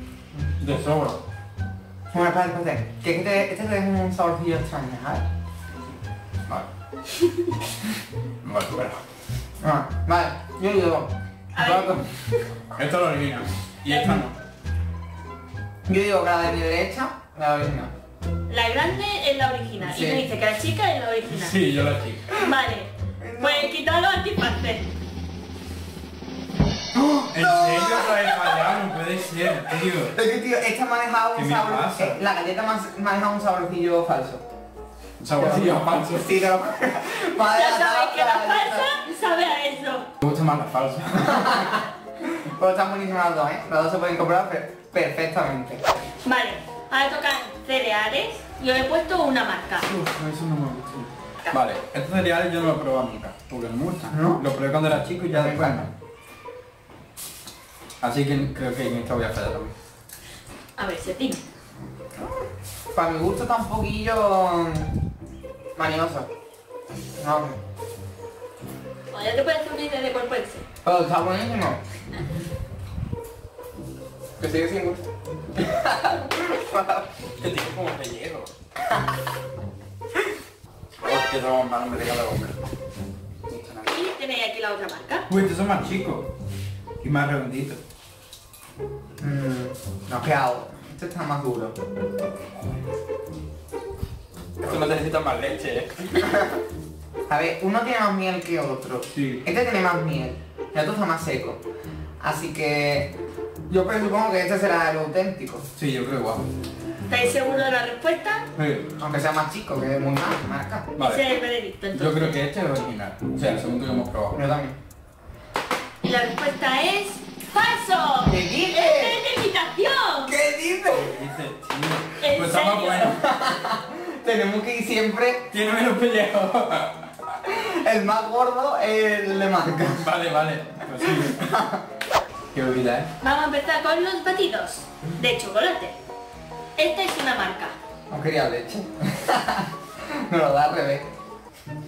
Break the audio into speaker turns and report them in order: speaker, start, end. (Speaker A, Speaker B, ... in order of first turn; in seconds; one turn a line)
Speaker A: 0.6-1.2
Speaker B: 2.1-5.2
Speaker A: 8.4-9.0
Speaker B: 9.6-12.1
Speaker C: 11.6-12.0
Speaker A: 12.7-14.3
Speaker C: 13.9-14.2
Speaker B: 15.9-17.9
Speaker C: 18.5-21.6
Speaker B: 19.8-20.2
Speaker A: 21.3-22.3
Speaker C: 22.4-24.9
Speaker B: 23.2-23.7
Speaker B: 26.9-28.6
Speaker A: 27.3-30.1
Speaker B: 30.1-34.4
Speaker A: 31.4-32.2
Speaker A: 35.2-36.3
Speaker B: 35.4-38.9
Speaker C: 37.5-40.1
Speaker A: 40.2-41.7
Speaker B: 41.2-45.8
Speaker C: 46.2-49.9
Speaker A: 49.8-55.9
Speaker B: 54.1-54.4
Speaker B: 55.3-55.9
Speaker A: 58.0-59.7
Speaker C: 60.8-61.4
Speaker B: 62.2-65.0
Speaker B: 65.8-66.3
Speaker B: 67.2-67.6
Speaker C: 69.1-70.7
Speaker B: 70.8-72.4
Speaker B: 74.4-77.1
Speaker A: 77.4-78.5
Speaker A: 80.9-82.6
Speaker A: 83.5-83.9
Speaker C: 83.9-85.3
Speaker A: 85.3-86.3
Speaker A: 87.0-87.8
Speaker B: 89.2-91.8
Speaker A: 94.6-96.3
Speaker B: 97.3-101.6
Speaker A: 99.1-99.4
Speaker B: 102.2-103.1
Speaker B: 103.7-105.7
Speaker A: 105.8-106.5
Speaker C: 107.1-108.5
Speaker A: 108.6-108.9
Speaker B: 109.0-110.9
Speaker A: 111.0-111.2
Speaker C: 111.0-112.4
Speaker A: 111.9-114.4
Speaker B: 114.3-114.8
Speaker C: 116.0-120.3
Speaker B: 118.2-119.2
Speaker B: 120.2-121.2
Speaker A: 120.9-123.2
Speaker C: 122.2-123.1
Speaker B: 123.0-125.5
Speaker A: 125.5-127.1
Speaker B: 127.4-130.1
Speaker A: 129.8-131.5
Speaker B: 131.1-131.8
Speaker A: 132.5-133.1
Speaker C: 133.2-136.0
Speaker C: 136.8-137.8
Speaker B: 138.1-139.7
Speaker B: 140.2-141.1